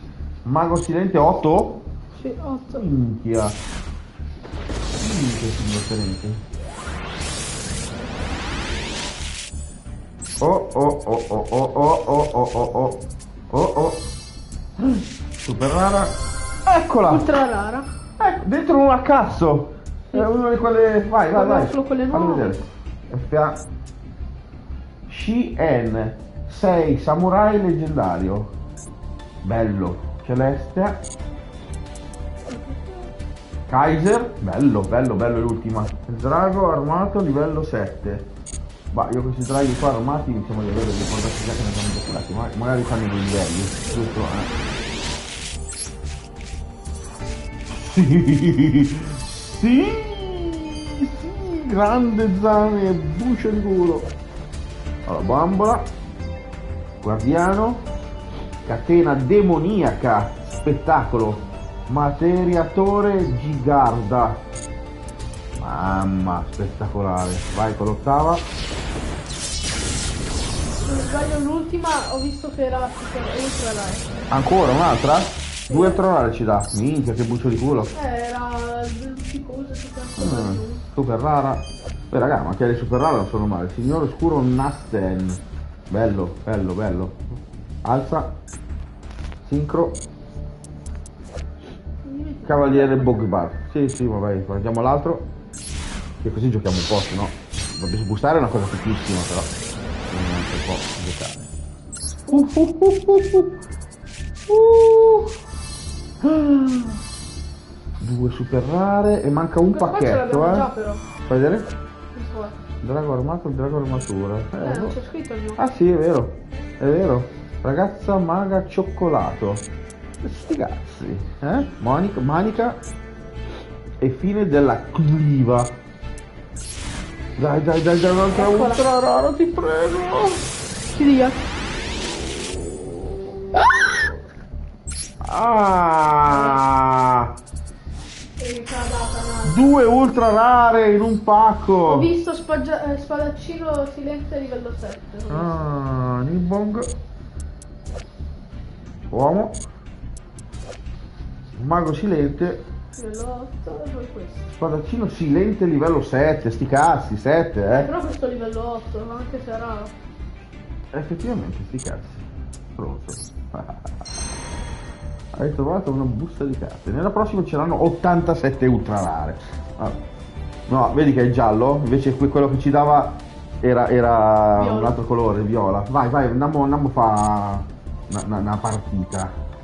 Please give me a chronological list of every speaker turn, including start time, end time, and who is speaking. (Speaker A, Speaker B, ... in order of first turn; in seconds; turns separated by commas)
Speaker A: 0.5-1.8, Speaker B: 2.1-2.9, Speaker A: 2.7-3.6, Speaker A: 5.0-6.4, Speaker A: 10.4-14.1, Speaker A: 14.8-17.3, Speaker B: 17.0-17.9, Speaker A: 18.2-23.6, Speaker B: 20.1-20.4, Speaker B: 21.3-22.6, Speaker A: 25.1-28.5, Speaker A: 29.4-31.1, Speaker B: 32.5-33.1, Speaker A: 33.7-38.3, Speaker A: 38.9-44.5, Speaker B: 43.8-45.2, Speaker A: 47.7-54.1, Speaker A: 55.1-55.9, Speaker A: 57.0-57.9, Speaker A: 58.7-64.4, Speaker A: 65.6-68.5, Speaker B: 70.8-74.1, Speaker A: 74.3-77.9, Speaker B: 75.7-76.0, Speaker B: 77.9-80.8, Speaker A: 80.2-87.2, Speaker A: 87.8-88.3, Speaker A: 89.4-90.0, Speaker B: 92.0-93.3, Speaker A: 92.5-95.3, Speaker A: 96.2-101.5, Speaker B: 102.2-102.5, Speaker A: 102.3-103.6, Speaker A: 104.5-105.3, Speaker A: 106.2-107.0, Speaker A: 108.0-110.7, Speaker B: 109.7-111.0, Speaker A: 111.3-111.7, Speaker B: 112.1-112.6, Speaker A: 112.8-115.0, Speaker B: 114.6-115.6, Speaker A: 115.6-119.7, Speaker A: 120.2-122.8, Speaker A: 124.0-125.8, Speaker A: 127.4-130.4, Speaker B: 128.3-128.9, Speaker B: 130.9-131.5, Speaker A: 132.1-133.4, Speaker A: 135.2-137.3, Speaker B: 136.3-136.6, Speaker B: 138.4-139.7, Speaker A: 139.4-142.1, Speaker B: 141.8-145.7, Speaker A: 145.3-146.9, Speaker A: 149.1-149.6, Speaker A: 151.6-152.7, Speaker B: 153.0-154.5, Speaker A: 154.5-157.9, Speaker B: 157.7-159.9, Speaker A: 160.9-164.0, Speaker A: 165.3-170.0, Speaker A: 170.7-179.4, Speaker B: 174.6-175.0